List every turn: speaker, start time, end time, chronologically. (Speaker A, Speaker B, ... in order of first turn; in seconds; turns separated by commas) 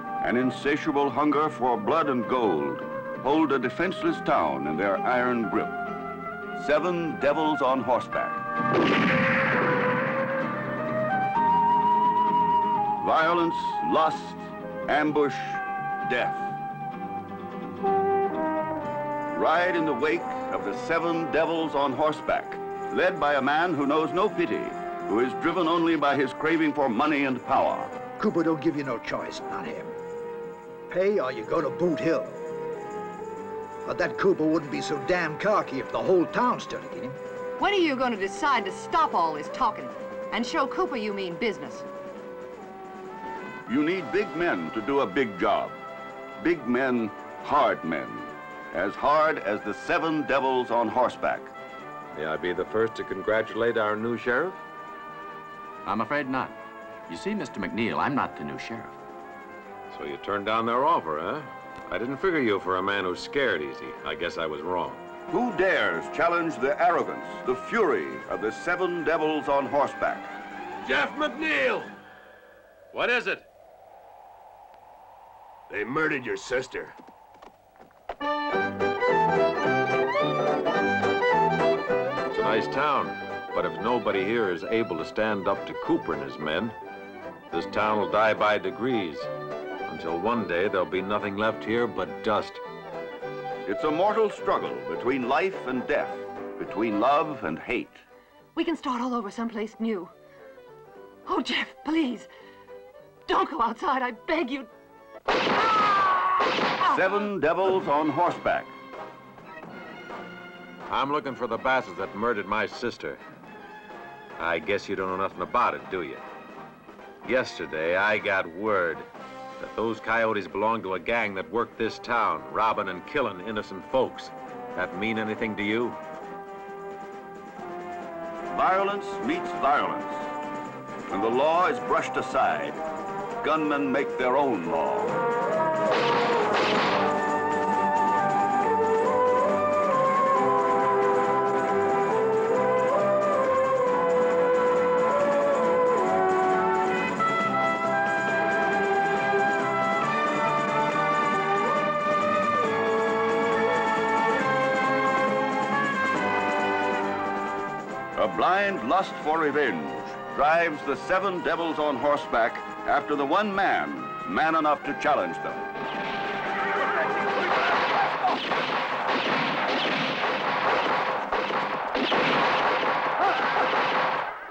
Speaker A: 0.2-5.8, Speaker A: 6.5-8.4, Speaker A: 13.0-16.6, Speaker A: 19.3-28.0, Speaker B: 28.2-29.9, Speaker B: 30.9-32.4, Speaker B: 33.9-37.2, Speaker C: 37.6-41.9, Speaker A: 43.7-45.8, Speaker A: 46.4-51.5, Speaker D: 52.1-54.6, Speaker E: 55.9-59.0, Speaker D: 59.9-65.0, Speaker A: 65.3-70.3, Speaker F: 70.8-71.9, Speaker D: 72.9-73.5, Speaker F: 75.7-77.0, Speaker D: 82.3-86.7, Speaker D: 87.5-89.3, Speaker D: 89.9-92.6, Speaker A: 93.7-98.0, Speaker C: 98.5-100.1, Speaker C: 101.3-102.3, Speaker C: 103.3-104.7, Speaker C: 105.5-107.2, Speaker A: 106.9-108.7, Speaker D: 110.9-113.2, Speaker D: 114.4-116.2, Speaker D: 117.2-119.1, Speaker D: 119.6-126.0, Speaker A: 128.5-130.3, Speaker A: 131.1-132.8, Speaker A: 133.4-135.2, Speaker A: 158.2-165.7